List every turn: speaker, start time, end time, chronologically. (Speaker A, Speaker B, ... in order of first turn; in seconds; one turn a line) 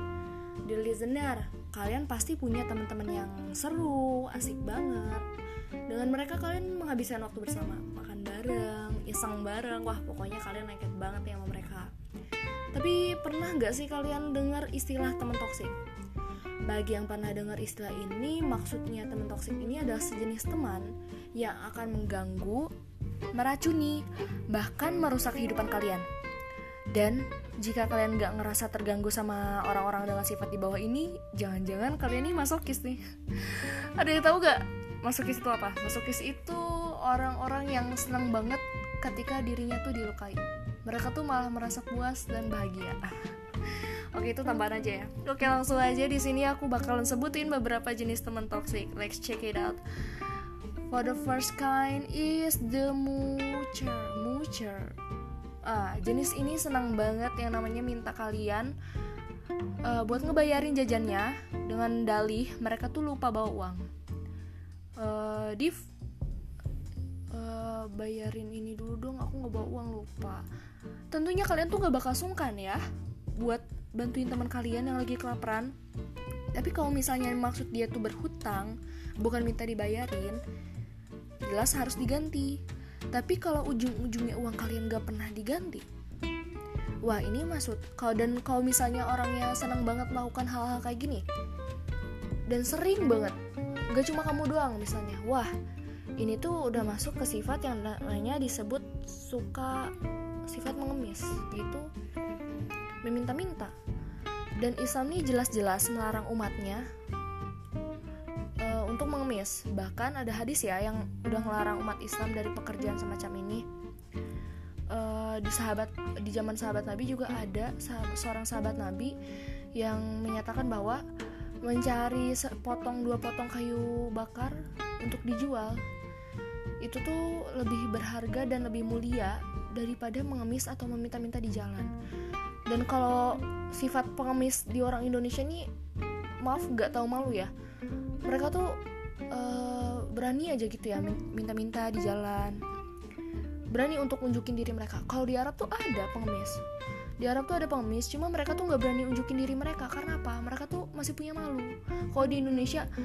Speaker A: 0.7-5.2
Speaker A: 5.9-11.9
Speaker A: 12.7-15.8
Speaker A: 16.7-22.7
Speaker A: 23.3-26.1
Speaker A: 26.9-49.8
Speaker A: 50.9-55.0
Speaker A: 55.6-58.8
Speaker A: 59.8-63.9
Speaker A: 65.0-65.8
Speaker A: 67.3-70.4
Speaker A: 71.1-72.8
Speaker A: 73.4-75.7
Speaker A: 76.5-80.4
Speaker A: 81.4-85.9
Speaker A: 87.0-91.2
Speaker A: 92.5-93.4
Speaker A: 93.9-95.5
Speaker A: 96.2-99.9
Speaker A: 100.5-101.9
Speaker A: 103.0-103.7
Speaker A: 104.6-106.9
Speaker A: 108.6-113.7
Speaker A: 114.9-119.2
Speaker A: 119.7-121.0
Speaker A: 121.6-125.8
Speaker A: 126.8-131.9
Speaker A: 132.7-135.7
Speaker A: 136.4-137.5
Speaker A: 138.2-138.8
Speaker A: 139.3-142.6
Speaker A: 143.7-146.6
Speaker A: 147.2-152.9